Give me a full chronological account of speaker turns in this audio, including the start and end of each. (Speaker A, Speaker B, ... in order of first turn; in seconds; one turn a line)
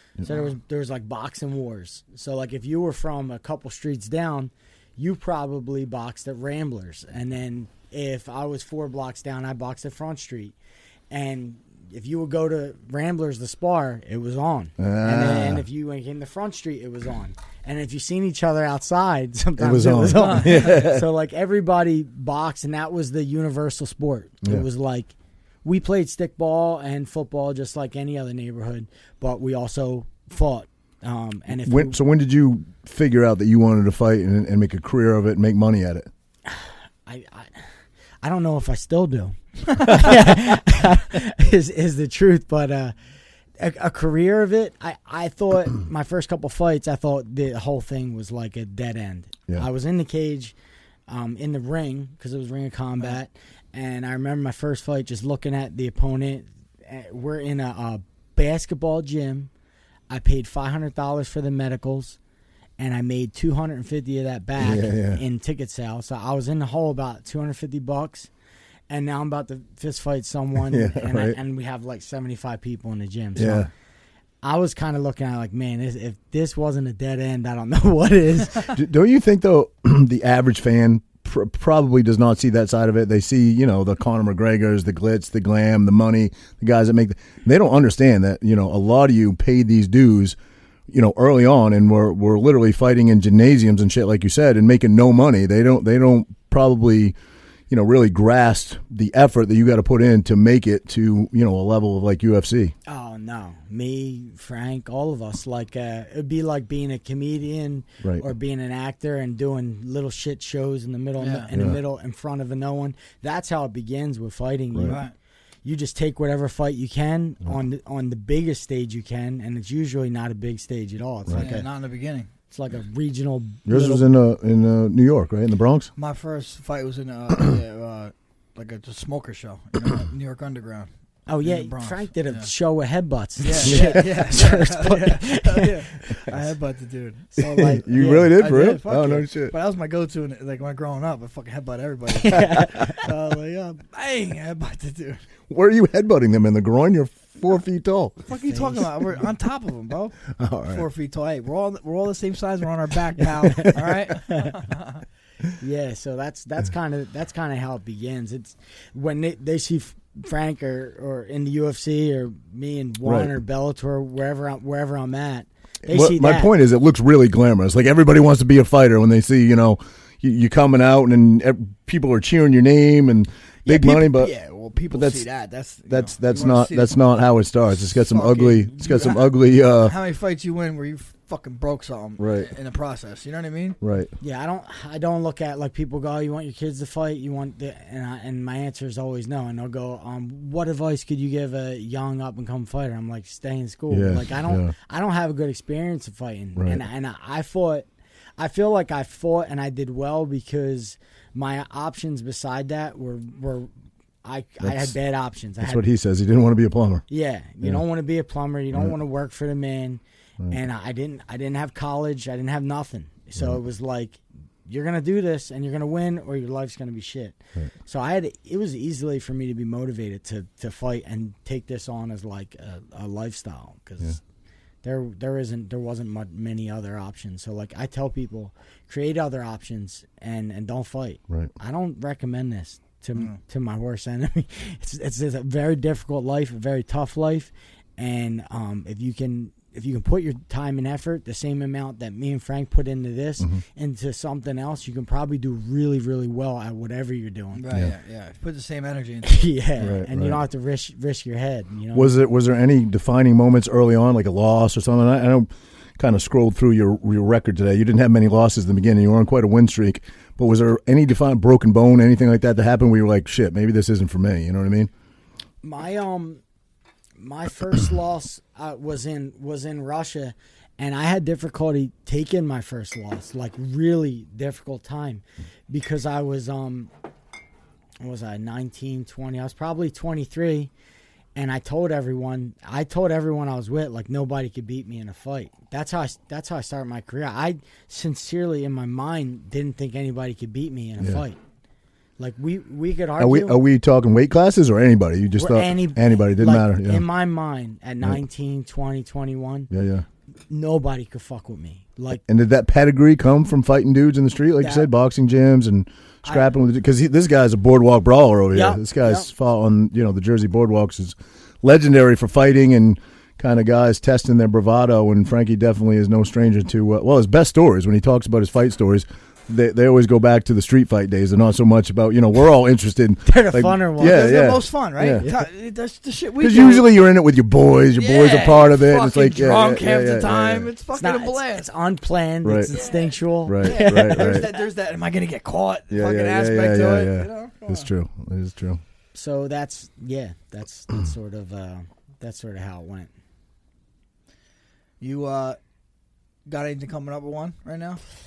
Speaker A: 0.2-10.5
Speaker A: 11.1-25.1
Speaker B: 14.8-15.6
Speaker B: 19.6-21.1
Speaker C: 20.1-20.8
Speaker A: 25.6-32.0
Speaker B: 31.6-36.1
Speaker A: 36.5-37.6
Speaker A: 38.2-42.9
Speaker A: 43.6-50.5
Speaker A: 51.1-59.5
Speaker A: 60.1-62.2
Speaker A: 62.8-68.3
Speaker B: 64.6-65.2
Speaker A: 68.9-73.7
Speaker B: 70.5-71.4
Speaker B: 73.3-73.7
Speaker A: 74.4-78.8
Speaker B: 78.7-90.3
Speaker B: 90.9-97.1
Speaker B: 97.7-102.7
Speaker A: 102.8-115.1
Speaker B: 108.0-108.3
Speaker C: 111.2-111.5
Speaker B: 111.5-111.8
Speaker C: 114.8-115.1
Speaker A: 115.6-121.7
Speaker C: 121.3-122.3
Speaker A: 122.5-124.0
Speaker B: 123.7-125.9
Speaker C: 125.9-130.9
Speaker A: 131.3-136.4
Speaker C: 131.4-132.5
Speaker C: 133.4-145.2
Speaker B: 133.7-134.0
Speaker B: 137.4-139.5
Speaker A: 137.5-138.3
Speaker A: 142.1-143.1
Speaker B: 145.5-148.2
Speaker C: 148.3-155.0
Speaker A: 148.4-148.9
Speaker B: 150.3-150.9
Speaker A: 153.4-154.6
Speaker A: 155.6-166.5
Speaker B: 163.0-163.3
Speaker B: 165.9-174.3
Speaker C: 173.7-176.9
Speaker B: 174.9-175.3
Speaker B: 175.9-179.9
Speaker C: 177.8-183.8
Speaker B: 182.2-182.5
Speaker B: 183.8-184.1
Speaker A: 184.2-197.9
Speaker B: 193.9-194.7
Speaker B: 196.6-196.8
Speaker A: 198.4-203.7
Speaker A: 204.2-205.8
Speaker B: 204.6-204.9
Speaker B: 205.6-207.0
Speaker A: 207.1-224.2
Speaker A: 224.8-247.7
Speaker C: 247.5-249.5
Speaker A: 249.2-252.2
Speaker B: 249.8-250.4
Speaker B: 251.9-264.9
Speaker A: 265.6-266.4
Speaker A: 267.2-276.9
Speaker A: 278.0-280.7
Speaker A: 281.3-291.4
Speaker A: 292.2-293.6
Speaker B: 293.2-297.0
Speaker A: 295.4-299.7
Speaker B: 299.7-300.1
Speaker A: 300.5-302.2
Speaker B: 302.3-325.3
Speaker A: 304.6-304.9
Speaker A: 306.2-306.5
Speaker A: 308.5-309.3
Speaker A: 323.2-324.3
Speaker C: 324.0-326.9
Speaker B: 326.4-330.7
Speaker C: 327.9-331.7
Speaker A: 330.9-334.3
Speaker B: 332.4-332.8
Speaker B: 333.4-334.5
Speaker C: 333.6-337.9
Speaker B: 335.9-338.8
Speaker A: 339.1-343.1
Speaker C: 345.0-345.6
Speaker C: 346.5-348.0